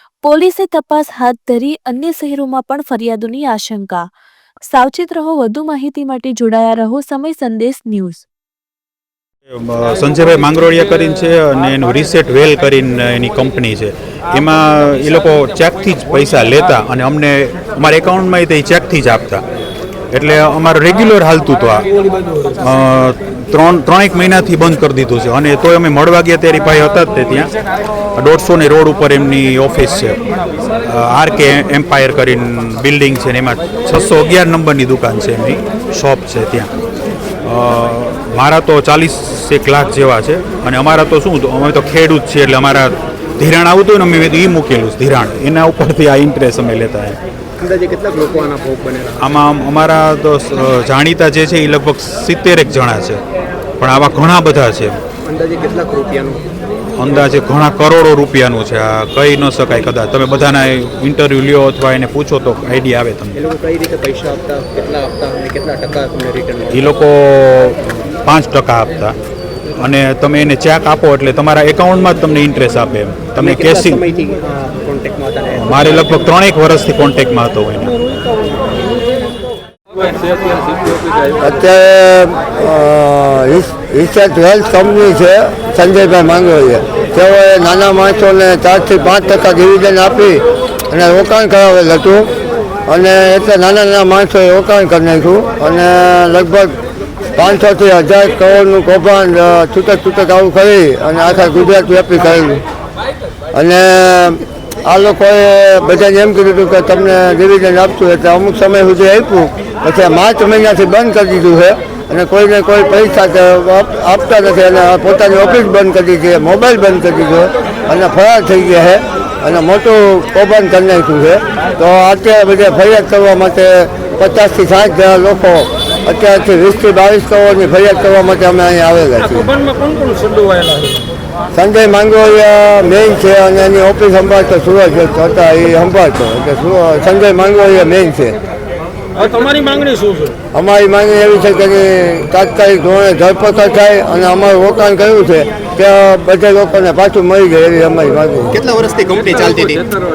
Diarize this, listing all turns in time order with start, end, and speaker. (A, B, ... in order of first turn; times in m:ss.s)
0:00.2-0:04.1 A
0:04.7-0:08.2 A
0:09.5-0:19.4 B
0:20.1-0:21.9 B
0:22.6-0:27.5 B
0:28.2-0:30.2 B
0:30.8-0:36.7 B
0:37.4-0:47.2 B
0:47.6-0:49.4 C
0:49.2-0:53.2 B
0:53.8-0:55.0 B
0:55.2-0:56.5 C
0:57.0-1:03.4 B
1:03.3-1:06.9 C
1:06.7-1:09.2 B
1:09.8-1:14.0 B
1:13.4-1:16.3 C
1:15.6-1:18.1 B
1:21.4-1:32.3 D
1:32.9-1:36.8 D
1:37.4-1:42.6 D
1:43.5-2:09.6 D
2:09.6-2:11.0 E
2:11.5-2:18.4 D
2:19.2-2:20.3 E
2:20.5-2:28.6 D
2:28.5-2:29.9 C